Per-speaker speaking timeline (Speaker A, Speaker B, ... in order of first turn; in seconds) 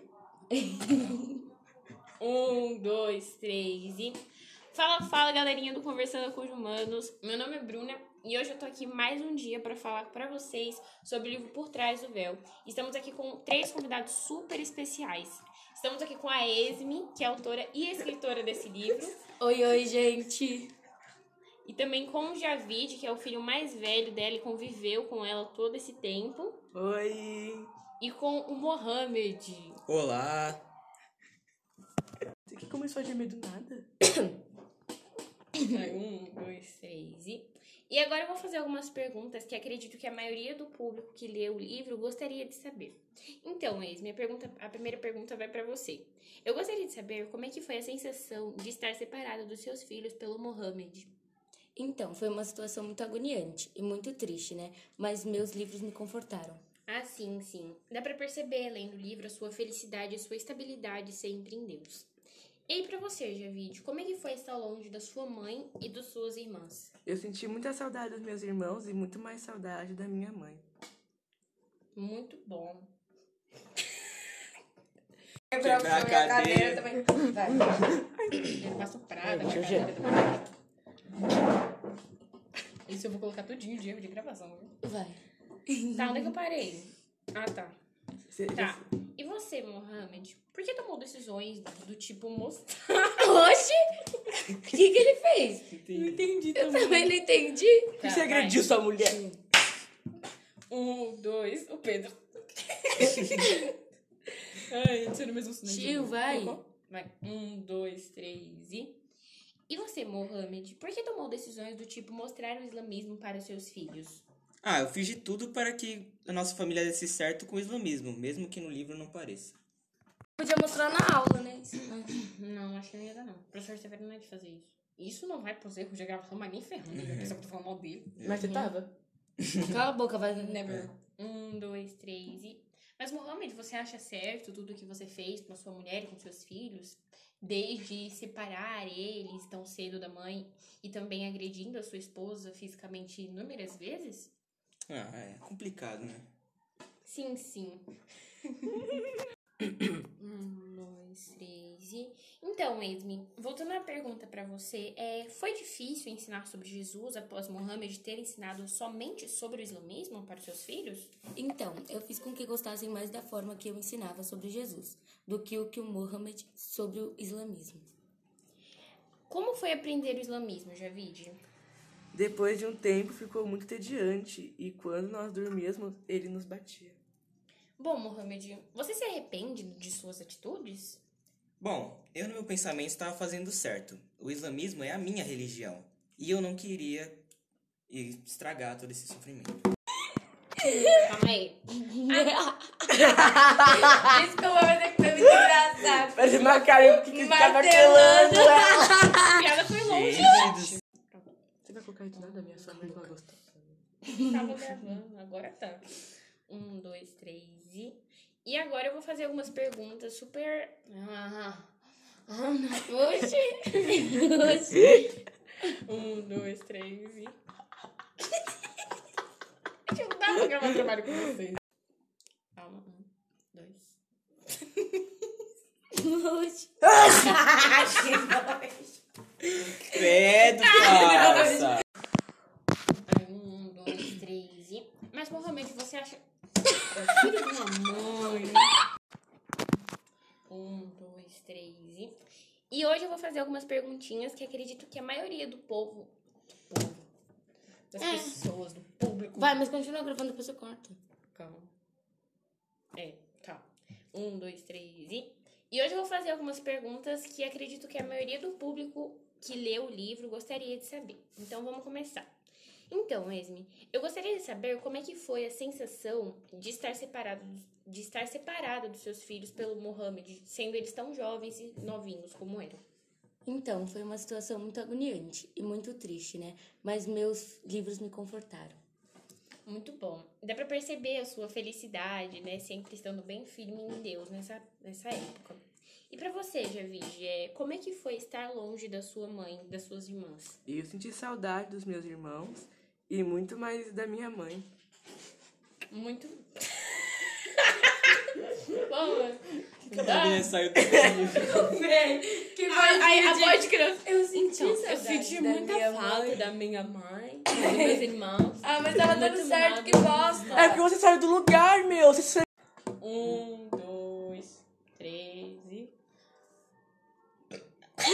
Speaker A: 0.5-1.3, 19.4-20.7, 51.8-56.6, 75.5-77.6, 84.8-86.3, 93.2-95.7, 96.5-98.0, 99.0-99.4, 105.6-106.6, 120.4-122.2, 128.4-128.7, 129.6-130.6, 161.3-167.9, 190.6-191.1, 191.9-193.0, 195.2-199.5, 204.1-204.5, 212.9-215.1, 225.9-228.2, 230.8-231.4, 248.0-248.4, 249.3-251.0, 273.4-278.8, 301.6-306.1, 307.6-307.9, 308.6-310.8
Speaker B: 2.2-4.2, 4.7-19.2, 21.6-26.6, 28.0-29.8, 35.6-51.1, 56.9-62.1, 62.7-66.9, 71.9-72.9, 78.4-80.5, 82.8-84.8, 85.9-87.8, 88.5-93.3, 98.0-98.7, 100.7-103.7, 104.7-109.0, 109.7-114.2, 122.1-128.2, 130.3-144.3, 147.0-147.9, 150.2-161.1, 169.3-171.4, 177.8-181.0, 190.6-192.4, 193.8-196.4, 199.2-201.3, 202.1-202.9, 204.1-205.8, 206.5-215.0, 215.6-217.4, 219.9-221.6, 222.5-223.9, 227.3-228.9, 230.0-231.6, 233.0-236.2, 236.8-238.8, 240.5-242.2, 242.7-246.1, 246.7-247.0, 247.9-249.6, 251.3-251.7, 252.9-262.3, 262.9-272.8, 279.6-290.6, 295.9-297.0, 297.6-297.9, 298.6-310.8, 313.0-315.9
Speaker C: 26.7-27.7, 32.5-33.9, 67.0-70.6, 79.3-79.9, 88.3-88.8, 95.8-97.1, 98.0-99.2, 105.6-106.1, 128.2-128.9, 172.1-177.0, 192.9-194.2, 196.0-199.2, 201.6-203.8, 290.7-294.6, 305.5-306.1, 310.5-312.4
Speaker D: 29.9-30.6, 75.5-77.0, 114.6-119.6, 126.9-127.3, 128.2-128.5, 129.4-129.7, 144.9-146.3, 181.6-187.2, 187.9-189.6, 199.7-200.8, 229.7-231.8, 299.9-301.7